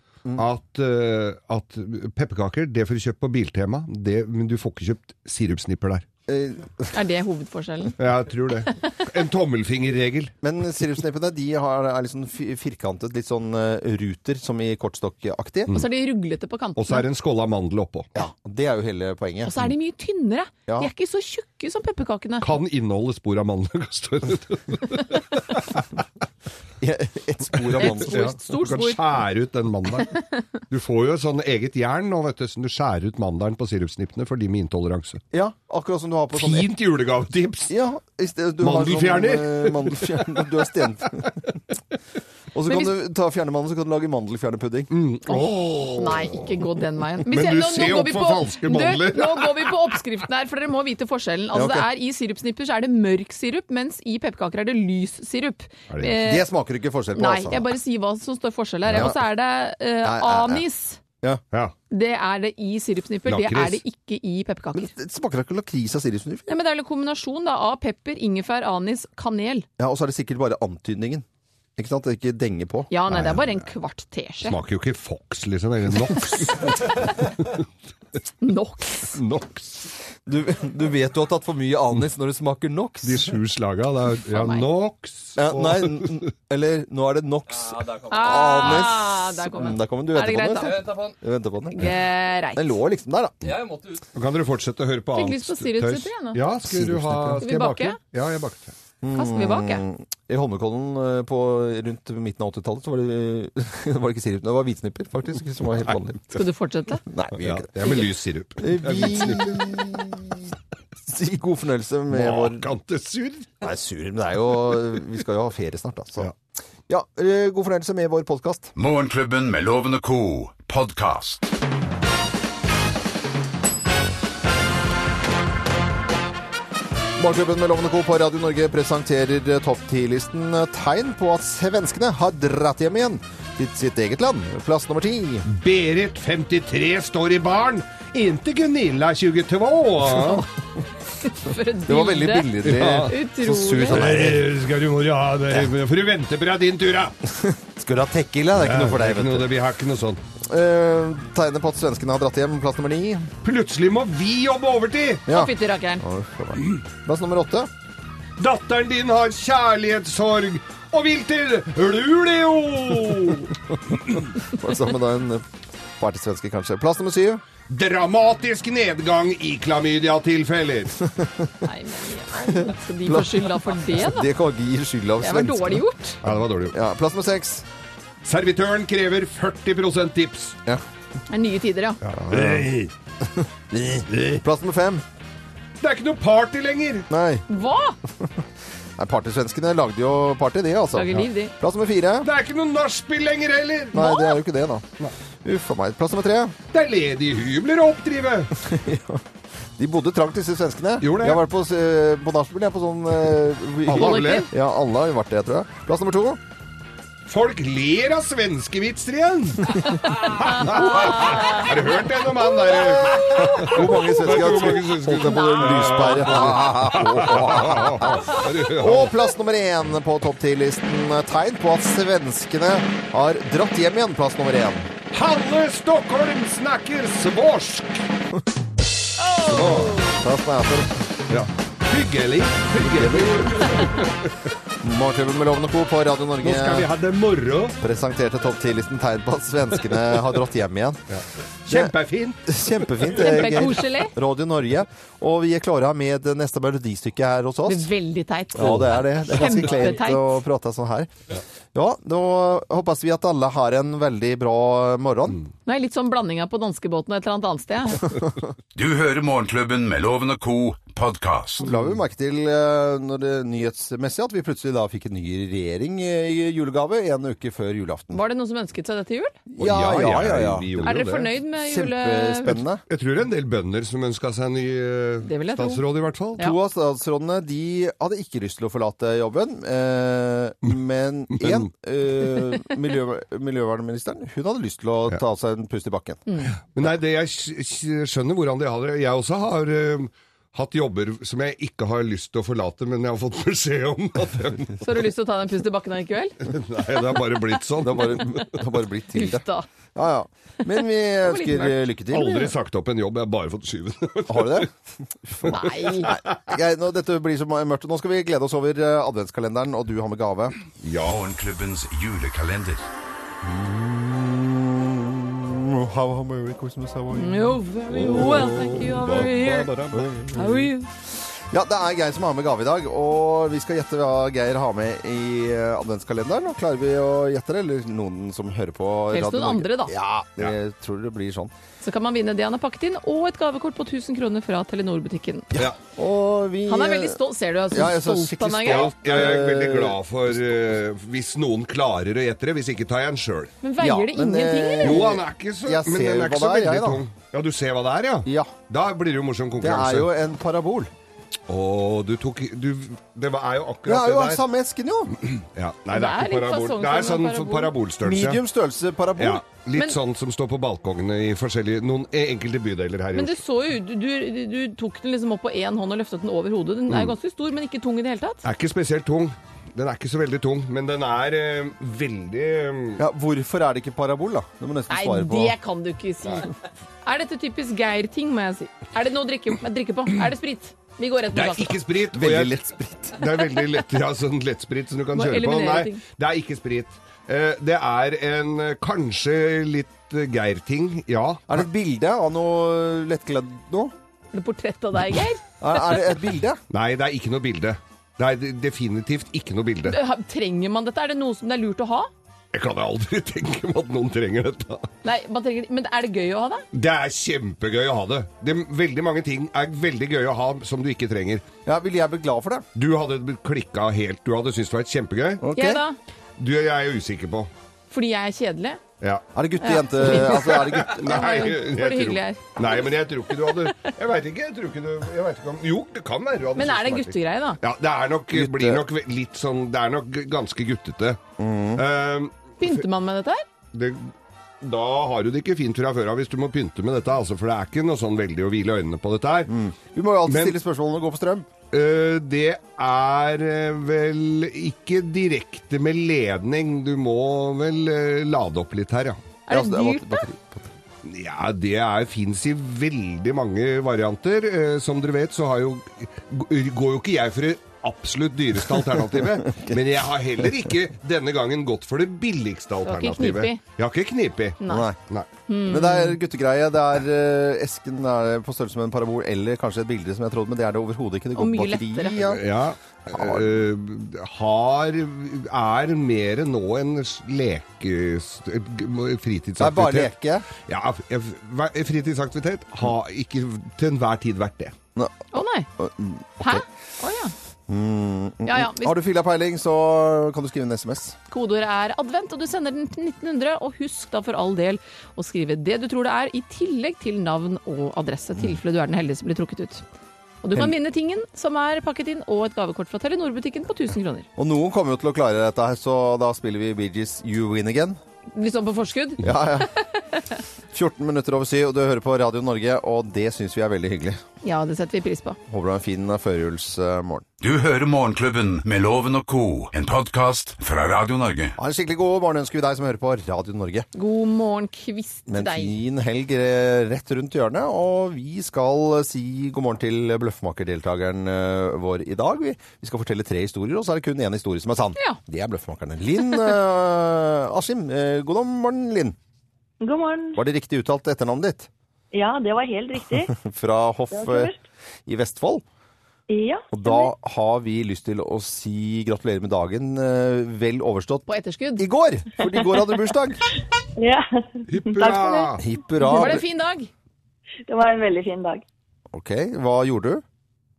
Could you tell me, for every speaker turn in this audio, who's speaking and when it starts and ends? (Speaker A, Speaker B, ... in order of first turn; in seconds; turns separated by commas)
Speaker A: 0.3-6.0, Speaker B: 6.3-6.9, Speaker C: 6.9-8.0, Speaker A: 8.0-10.3, Speaker B: 10.4-15.8, Speaker C: 15.7-17.0, Speaker A: 16.8-18.1, Speaker B: 18.1-19.7, Speaker C: 19.4-22.5, Speaker A: 22.4-25.8, Speaker B: 26.8-28.2, Speaker A: 27.8-30.2, Speaker C: 27.8-29.0, Speaker A: 30.7-35.2, Speaker B: 35.3-36.7, Speaker A: 36.3-37.7, Speaker B: 37.7-41.4, Speaker A: 38.6-40.6, Speaker B: 42.5-44.9, Speaker A: 44.9-46.4, Speaker C: 45.3-56.4, Speaker A: 47.3-49.7, Speaker B: 51.5-51.9, Speaker A: 55.9-56.2, Speaker B: 56.2-57.6, Speaker C: 57.1-61.0, Speaker A: 58.9-59.1, Speaker B: 60.0-60.6, Speaker C: 61.9-64.9, Speaker A: 63.2-63.8, Speaker B: 64.7-66.5, Speaker C: 66.5-69.7, Speaker B: 69.8-71.2, Speaker B: 71.8-73.2, Speaker C: 72.9-74.6, Speaker A: 73.1-73.4, Speaker A: 74.4-77.6, Speaker C: 78.4-79.2, Speaker A: 79.1-79.9, Speaker B: 80.2-83.3, Speaker A: 83.0-86.2, Speaker C: 84.3-84.6, Speaker B: 85.4-91.9, Speaker C: 88.0-90.9, Speaker C: 91.7-92.8, Speaker B: 92.5-93.8, Speaker A: 94.1-98.7, Speaker C: 95.1-96.4, Speaker B: 96.6-97.4, Speaker C: 97.4-98.0, Speaker B: 99.0-106.2, Speaker C: 99.1-99.8, Speaker C: 106.3-107.0, Speaker B: 107.1-108.0, Speaker A: 107.4-109.8, Speaker B: 108.6-110.5, Speaker B: 111.0-112.7, Speaker A: 112.1-113.5, Speaker B: 113.6-116.3, Speaker B: 116.9-118.7, Speaker D: 118.8-121.5, Speaker B: 127.2-135.4, Speaker A: 135.4-140.4, Speaker C: 140.1-140.4, Speaker C: 141.2-144.1, Speaker B: 141.9-144.5, Speaker A: 142.6-143.1, Speaker A: 143.9-147.1, Speaker B: 147.3-149.5, Speaker A: 148.6-150.2, Speaker B: 150.5-153.3, Speaker A: 153.4-155.2, Speaker B: 155.3-157.7, Speaker C: 155.3-156.0, Speaker A: 158.4-163.5, Speaker B: 164.4-165.4, Speaker B: 166.0-167.4, Speaker A: 167.7-171.0, Speaker B: 171.0-171.6, Speaker C: 171.6-174.3, Speaker B: 172.5-175.8, Speaker C: 175.2-176.2, Speaker A: 176.2-176.8, Speaker B: 176.7-177.6, Speaker A: 178.2-180.6, Speaker C: 181.3-182.0, Speaker A: 182.0-182.9, Speaker B: 182.2-182.7, Speaker B: 183.4-185.0, Speaker A: 184.1-184.4, Speaker A: 185.8-187.1, Speaker B: 187.1-187.4, Speaker C: 187.5-188.0, Speaker B: 189.0-192.3, Speaker C: 190.9-191.5, Speaker A: 192.2-194.1, Speaker B: 193.9-194.9, Speaker C: 193.9-194.3, Speaker B: 195.4-196.5, Speaker A: 196.7-198.5, Speaker B: 198.6-199.2, Speaker B: 199.8-206.4, Speaker A: 201.0-201.4, Speaker A: 203.9-204.5, Speaker C: 203.9-204.5, Speaker A: 207.2-219.2, Speaker C: 210.7-211.6, Speaker B: 213.1-224.9, Speaker C: 215.2-216.3, Speaker A: 225.1-228.0, Speaker A: 229.4-230.1, Speaker B: 230.1-231.1, Speaker A: 231.3-234.2, Speaker B: 232.8-233.9, Speaker B: 234.8-236.9, Speaker A: 236.4-237.8, Speaker B: 237.8-241.0, Speaker A: 241.1-243.7, Speaker B: 241.7-241.9, Speaker B: 242.4-247.9, Speaker C: 243.2-244.1, Speaker C: 247.7-250.3, Speaker B: 248.5-251.1, Speaker A: 248.6-248.9, Speaker B: 251.7-255.4, Speaker C: 255.7-258.1, Speaker D: 258.7-261.7, Speaker B: 261.6-268.2, Speaker C: 268.1-269.3, Speaker B: 269.5-272.8, Speaker A: 269.6-271.3, Speaker C: 270.8-272.6, Speaker A: 272.9-276.4, Speaker C: 275.2-275.8, Speaker B: 276.4-286.2, Speaker A: 281.3-281.7, Speaker C: 286.3-286.5, Speaker A: 286.7-294.8, Speaker C: 294.8-296.4, Speaker A: 296.5-298.4, Speaker B: 297.8-302.5, Speaker C: 299.1-299.7, Speaker C: 301.2-301.7, Speaker A: 302.1-304.7, Speaker B: 304.3-304.7, Speaker B: 305.3-310.6, Speaker C: 305.4-306.1, Speaker A: 310.8-311.1, Speaker D: 311.0-312.9, Speaker B: 313.4-318.7, Speaker C: 317.1-319.7, Speaker A: 317.9-320.2, Speaker B: 319.9-320.6, Speaker C: 320.3-320.9, Speaker B: 321.5-331.5, Speaker C: 329.1-329.9, Speaker C: 331.8-335.6, Speaker B: 335.6-337.2, Speaker C: 336.7-338.9, Speaker B: 337.7-340.0, Speaker A: 338.6-343.5, Speaker C: 343.6-345.0, Speaker B: 343.8-347.0, Speaker A: 344.8-350.1, Speaker B: 348.2-348.5, Speaker B: 349.6-350.9, Speaker A: 351.5-354.4, Speaker B: 353.9-355.1, Speaker A: 355.3-358.4, Speaker C: 355.9-357.7, Speaker B: 358.0-359.4, Speaker A: 359.2-363.4, Speaker C: 363.1-368.4, Speaker A: 368.4-373.0, Speaker B: 373.0-375.6, Speaker C: 374.9-376.5, Speaker C: 377.0-381.8, Speaker A: 381.3-382.6, Speaker B: 382.1-383.2, Speaker A: 383.1-391.6, Speaker C: 385.1-386.0, Speaker B: 391.5-393.9, Speaker C: 394.3-395.4, Speaker B: 395.6-396.6, Speaker A: 396.7-400.0, Speaker C: 399.9-402.1, Speaker A: 402.5-404.9, Speaker C: 405.0-406.6, Speaker A: 406.7-411.4, Speaker B: 411.6-412.6, Speaker A: 412.7-415.4, Speaker B: 415.4-415.8, Speaker C: 415.6-416.0, Speaker A: 416.4-417.5, Speaker C: 417.9-418.8, Speaker A: 419.0-419.2, Speaker B: 419.3-421.4, Speaker C: 419.6-423.7, Speaker A: 420.1-431.2, Speaker C: 426.6-427.6, Speaker B: 428.3-428.8, Speaker B: 431.4-431.8, Speaker A: 431.8-432.8, Speaker C: 432.6-433.4, Speaker A: 433.7-439.5, Speaker B: 439.5-441.5, Speaker A: 440.3-440.6, Speaker A: 441.7-449.2, Speaker C: 449.5-450.2, Speaker B: 449.5-450.7, Speaker A: 451.0-465.3, Speaker C: 462.8-463.6, Speaker C: 464.6-464.9, Speaker B: 464.6-465.0, Speaker C: 465.5-466.2, Speaker B: 465.6-472.5, Speaker C: 471.3-472.3, Speaker A: 472.3-480.1, Speaker B: 473.1-473.6, Speaker B: 479.6-480.5, Speaker A: 480.6-484.7, Speaker C: 485.3-485.7, Speaker B: 485.8-486.6, Speaker C: 486.4-487.3, Speaker B: 487.7-491.2, Speaker C: 488.4-488.9, Speaker C: 491.3-499.8, Speaker C: 500.4-504.3, Speaker B: 504.4-508.0, Speaker C: 508.3-509.8, Speaker B: 509.2-509.7, Speaker B: 510.7-514.2, Speaker C: 514.4-515.4, Speaker B: 515.5-517.2, Speaker D: 517.4-521.5, Speaker B: 521.6-523.9, Speaker C: 523.9-525.7, Speaker B: 525.3-539.1, Speaker E: 539.8-540.4, Speaker B: 540.4-541.7, Speaker E: 542.1-543.3, Speaker B: 543.3-544.5, Speaker E: 544.1-544.6, Speaker B: 545.0-545.6, Speaker E: 546.3-547.1, Speaker B: 546.7-553.4, Speaker C: 551.3-551.9, Speaker E: 554.0-555.6, Speaker A: 554.7-555.6, Speaker B: 555.6-556.4, Speaker C: 556.0-556.9, Speaker E: 557.7-558.6, Speaker B: 559.1-560.2